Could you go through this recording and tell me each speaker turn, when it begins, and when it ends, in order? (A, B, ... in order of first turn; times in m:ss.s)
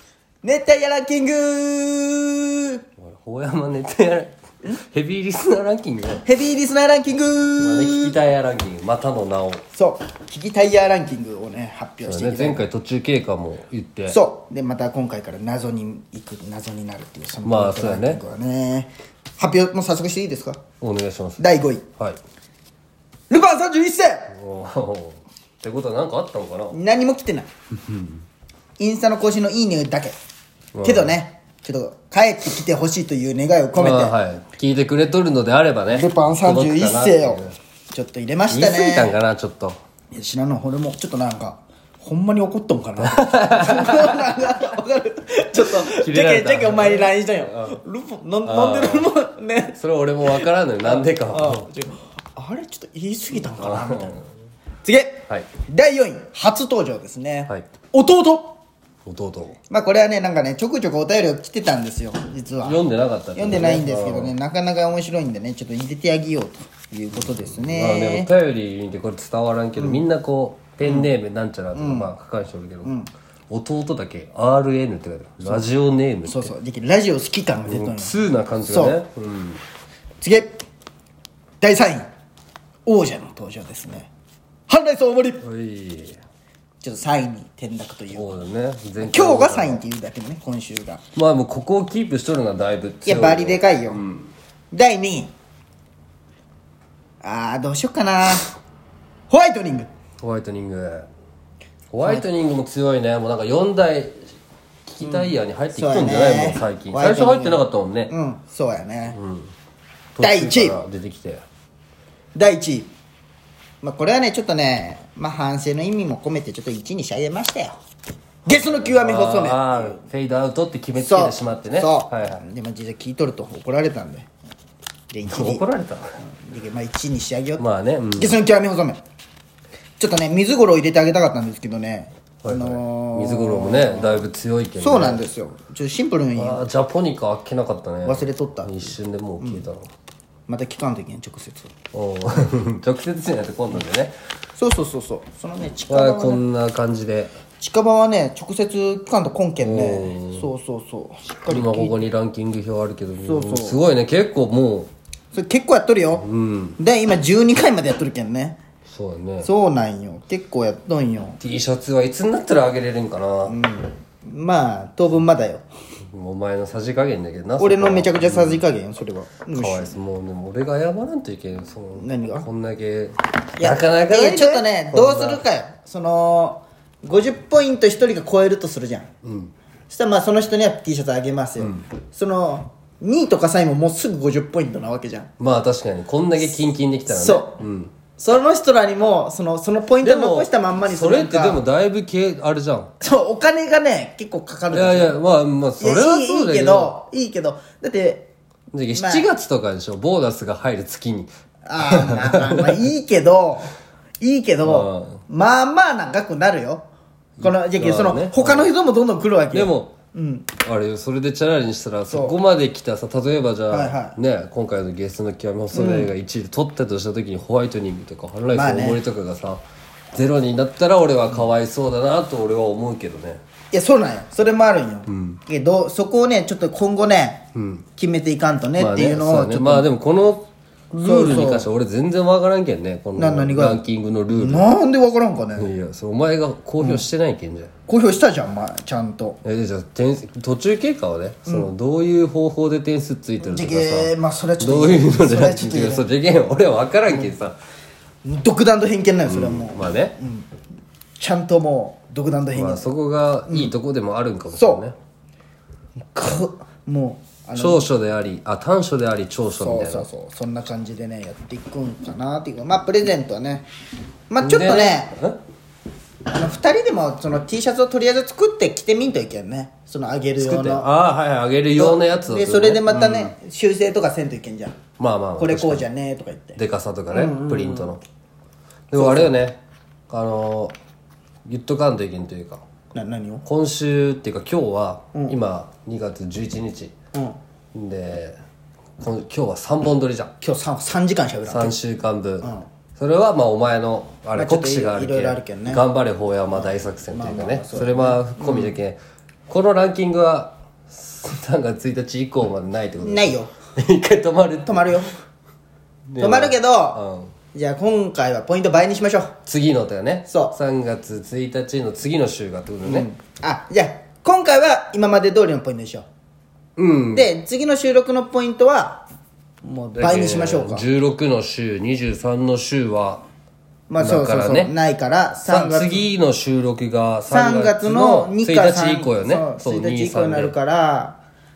0:00.4-0:02.8 A
0:03.0-0:06.2 B
0:06.2-0:08.2 A
0:07.6-0:09.6 B
0:09.7-0:12.6 A
0:12.0-0:14.2 B
0:14.1-0:20.6 A
0:17.4-0:18.2 B
0:20.8-0:21.4 B
0:21.4-0:21.8 A
0:23.3-0:24.3 A
0:24.3-0:26.8 B
0:26.7-0:27.5 A
0:28.8-0:30.2 A
0:30.8-0:31.1 B
0:30.8-0:34.2 A
0:33.7-0:37.6 B
0:35.9-0:39.1 A
0:38.5-0:39.8 B
0:40.1-0:54.2 A
0:43.0-0:44.4 B
0:45.7-0:47.8 B
0:48.4-0:49.1 B
0:49.8-0:51.7 B
0:53.5-0:54.2 B
0:54.8-0:58.6 A
0:59.0-0:59.6 B
0:59.7-1:02.8 A
1:02.6-1:04.3 B
1:03.4-1:08.3 A
1:07.2-1:12.9 B
1:09.8-1:10.0 A
1:11.7-1:12.1 A
1:13.5-1:16.5 B
1:16.2-1:18.1 A
1:17.7-1:19.6 B
1:18.6-1:19.0 A
1:20.2-1:20.6 A
1:21.6-1:22.1 A
1:22.8-1:24.1 A
1:24.7-1:25.4 A
1:25.4-1:26.2 B
1:26.8-1:28.4 A
1:28.1-1:29.8 B
1:29.0-1:31.0 A
1:31.2-1:34.3 B
1:33.0-1:34.0 A
1:34.7-1:35.3 A
1:37.2-1:38.5 A
1:39.3-1:39.9 A
1:40.2-1:41.1 B
1:41.9-1:44.3 B
1:42.0-1:42.2 A
1:44.8-1:48.1 B
1:45.0-1:49.2 A
1:49.1-1:49.5 B
1:50.2-1:51.4 B
1:50.2-1:50.8 A
1:52.3-1:52.9 A
1:53.8-1:57.8 A
1:58.4-2:00.0 A
1:58.5-2:02.4 B
2:01.0-2:04.3 A
2:05.1-2:05.6 A
2:05.3-2:06.1 B
2:06.2-2:07.6 A
2:07.6-2:08.4 B
2:08.2-2:09.0 A
2:10.0-2:14.3 A
2:12.4-2:15.2 B
2:14.8-2:16.7 A
2:16.4-2:19.9 B
2:18.0-2:19.6 A
2:20.5-2:21.7 A
2:21.9-2:24.1 B
2:24.6-2:26.4 A
2:25.9-2:27.3 B
2:27.6-2:32.0 A
2:29.6-2:30.5 B
2:31.5-2:34.9 B
2:33.2-2:33.8 A
2:35.3-2:36.3 A
2:36.2-2:36.8 B
2:36.8-2:38.6 A
2:38.9-2:39.5 B
2:39.4-2:41.4 A
2:41.4-2:43.6 B
2:43.5-2:45.7 A
2:46.1-2:48.6 B
2:47.6-2:49.9 A
2:49.5-2:55.4 B
2:52.0-2:52.5 A
2:53.6-2:59.1 A
2:59.2-2:59.5 B
2:59.9-3:05.3 A
3:01.6-3:01.9 B
3:05.4-3:07.9 B
3:07.1-3:07.6 A
3:08.2-3:11.6 A
3:10.0-3:12.9 B
3:13.0-3:15.2 A
3:14.7-3:17.0 B
3:15.8-3:18.3 A
3:18.7-3:22.8 B
3:18.9-3:19.3 A
3:21.7-3:26.9 A
3:24.6-3:25.2 B
3:27.4-3:28.7 B
3:27.4-3:30.5 A
3:29.5-3:29.9 B
3:30.6-3:39.6 B
3:32.1-3:32.4 A
3:33.7-3:34.2 A
3:35.7-3:36.1 A
3:38.5-3:39.0 A
3:40.1-3:43.4 B
3:43.7-3:47.4 A
3:45.1-3:45.4 B
3:47.5-3:47.8 B
3:48.0-3:49.9 A
3:48.8-3:54.7 B
3:50.9-3:51.7 A
3:53.2-3:55.7 A
3:55.6-3:57.7 B
3:56.8-3:57.0 A
3:57.9-3:59.4 A
3:59.4-4:07.6 B
4:01.4-4:01.7 A
4:03.4-4:06.1 A
4:08.2-4:10.5 A
4:09.2-4:10.2 B
4:11.2-4:12.9 A
4:12.5-4:15.0 B
4:13.5-4:13.7 A
4:14.5-4:14.8 A
4:16.1-4:17.9 A
4:17.6-4:20.1 B
4:19.6-4:23.7 A
4:24.3-4:25.1 A
4:24.4-4:25.4 B
4:26.3-4:30.9 A
4:30.4-4:33.3 B
4:31.7-4:34.8 A
4:35.0-4:35.8 B
4:35.4-4:36.6 A
4:36.6-4:38.0 B
4:37.1-4:38.0 A
4:38.9-4:40.8 B
4:38.9-4:39.4 A
4:41.5-4:42.6 B
4:42.9-4:43.4 A
4:43.4-4:46.9 B
4:47.1-4:47.4 A
4:47.7-4:48.4 B
4:49.0-4:50.3 B
4:50.4-4:51.8 A
4:51.5-5:04.9 B
4:54.3-4:55.8 A
4:56.5-4:58.8 A
5:03.0-5:03.5 A
5:04.7-5:05.1 A
5:06.1-5:07.3 B
5:06.2-5:07.0 A
5:07.5-5:09.3 A
5:09.5-5:13.1 B
5:10.3-5:10.6 A
5:12.8-5:16.1 A
5:16.8-5:17.3 B
5:17.1-5:19.0 A
5:19.6-5:20.8 A
5:20.0-5:23.2 B
5:23.9-5:26.1 A
5:24.0-5:24.7 B
5:25.5-5:30.6 B
5:27.3-5:31.2 A